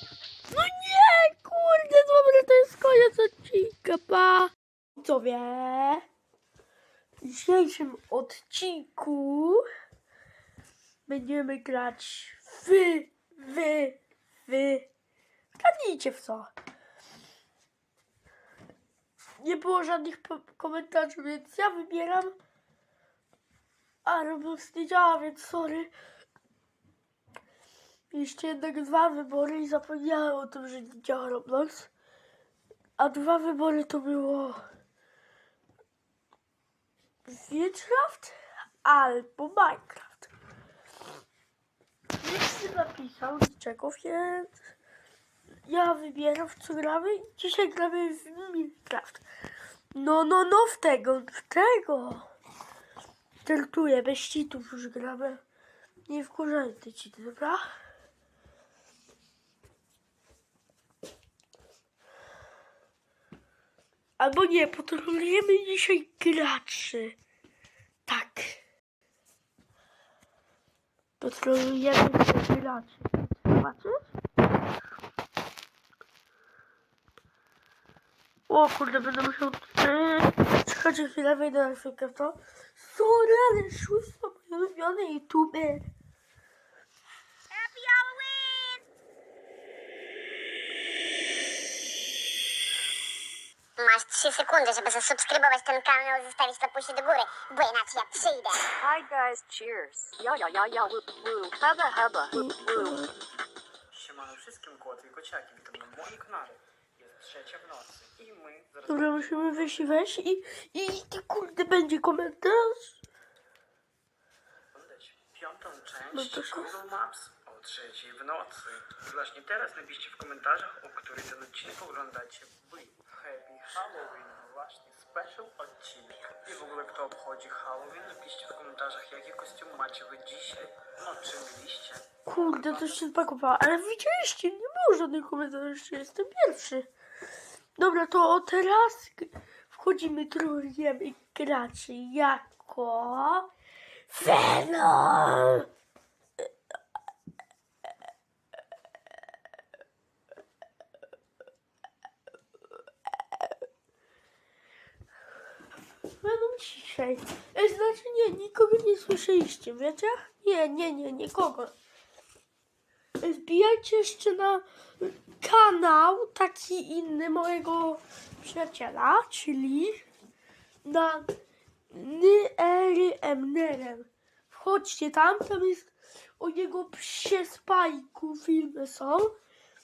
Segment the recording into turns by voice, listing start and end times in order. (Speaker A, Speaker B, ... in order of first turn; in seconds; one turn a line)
Speaker A: 0.5-6.0
Speaker A: 7.2-9.6
Speaker A: 11.1-14.9
Speaker A: 15.6-16.5
Speaker A: 19.4-22.3
Speaker A: 24.0-25.9
Speaker A: 28.1-31.9
Speaker A: 33.0-34.6
Speaker A: 37.2-40.3
Speaker A: 42.2-44.6
Speaker A: 45.6-49.2
Speaker A: 49.9-52.3
Speaker A: 53.4-55.4
Speaker A: 56.1-57.6
Speaker A: 64.2-67.2
Speaker A: 68.0-68.6
Speaker A: 71.2-74.1
Speaker A: 78.5-85.9
Speaker B: 87.6-88.7
Speaker B: 93.8-98.7
Speaker C: 98.8-103.0
Speaker A: 102.3-103.2
Speaker D: 103.9-109.8
Speaker A: 108.9-113.0
Speaker D: 114.7-133.0
Speaker A: 116.1-116.8
Speaker A: 132.2-136.9
Speaker A: 137.8-143.5
Speaker A: 144.1-145.7
Speaker A: 156.2-161.7
Speaker A: 163.2-170.0
Speaker A: 170.8-171.3
Speaker A: 171.9-179.3